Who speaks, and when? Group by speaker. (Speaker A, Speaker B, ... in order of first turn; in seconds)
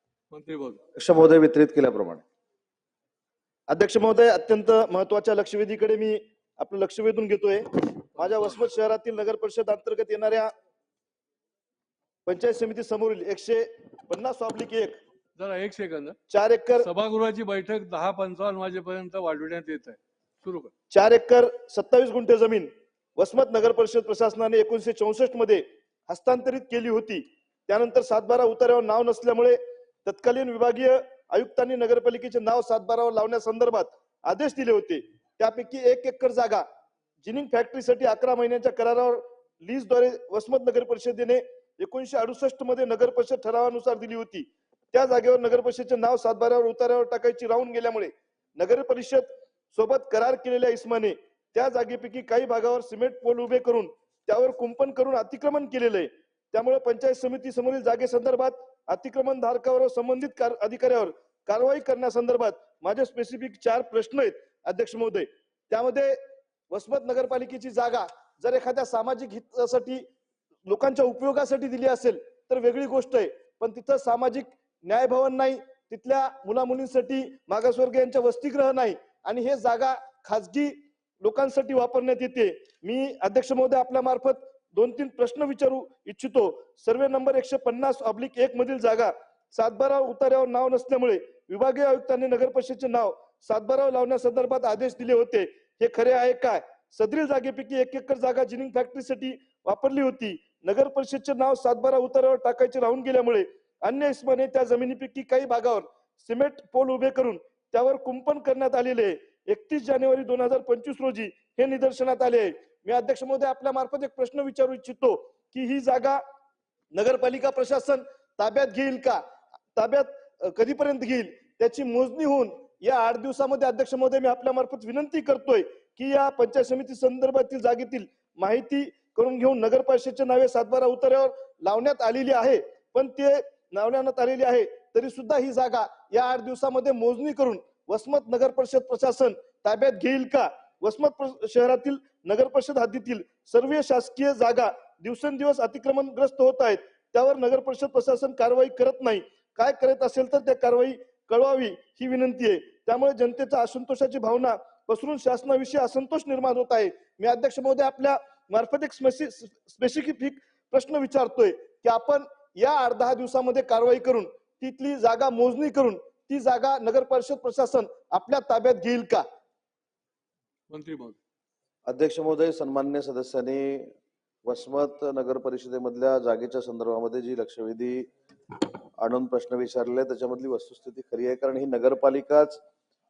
Speaker A: 0.3-0.8, 8.2-8.6, 15.4-16.2, 16.8-20.7, 170.7-171.2
Speaker B: 1.0-2.2, 171.8-173.9, 174.4-178.1, 179.0-182.6
Speaker C: 3.7-10.5, 12.2-15.0, 16.3-16.9, 20.9-36.6, 37.2-66.2, 66.7-70.0, 70.7-116.2, 116.9-119.2, 119.8-169.2